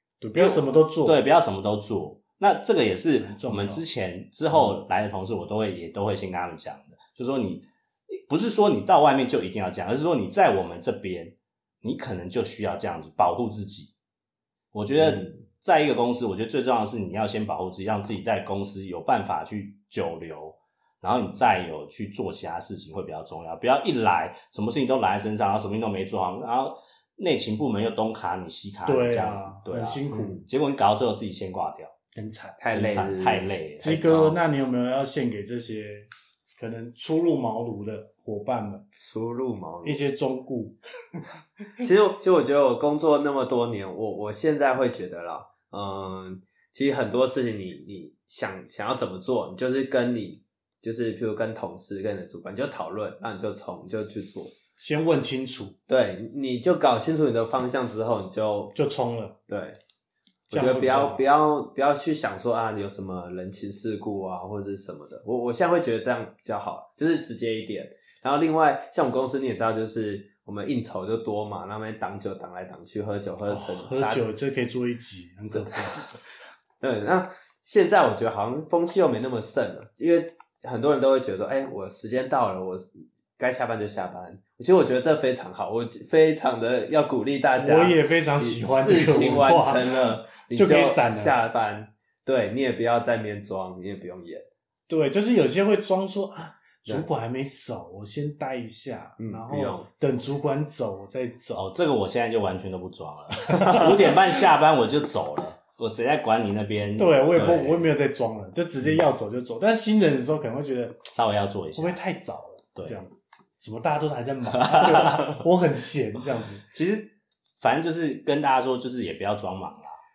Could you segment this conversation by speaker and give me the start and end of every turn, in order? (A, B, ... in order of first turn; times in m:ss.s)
0:00.2-0:01.2 A
0:00.4-0:13.9 B
0:03.2-0:03.8 A
0:14.7-0:31.9 B
0:15.0-0:15.3 C
0:28.9-0:30.4 A
0:30.1-0:30.4 C
0:32.2-0:32.6 A
0:32.6-0:33.5 C
0:32.7-0:34.4 B
0:33.8-0:38.9 A
0:39.0-0:40.0 C
0:39.8-0:40.8 A
0:41.8-0:54.5 C
0:54.8-0:55.8 A
0:55.9-0:58.7 C
0:58.7-0:59.4 A
0:59.5-0:59.8 C
1:00.5-1:14.2 C
1:00.5-1:01.2 A
1:13.5-1:16.2 A
1:16.8-1:34.5 C
1:27.6-1:29.8 A
1:30.5-1:31.4 A
1:34.9-1:41.6 A
1:39.2-1:39.9 C
1:41.6-1:47.9 B
1:43.5-1:43.8 A
1:47.0-1:51.0 A
1:51.1-1:52.0 B
1:51.8-1:56.6 A
1:54.6-1:55.2 B
1:56.7-2:00.0 B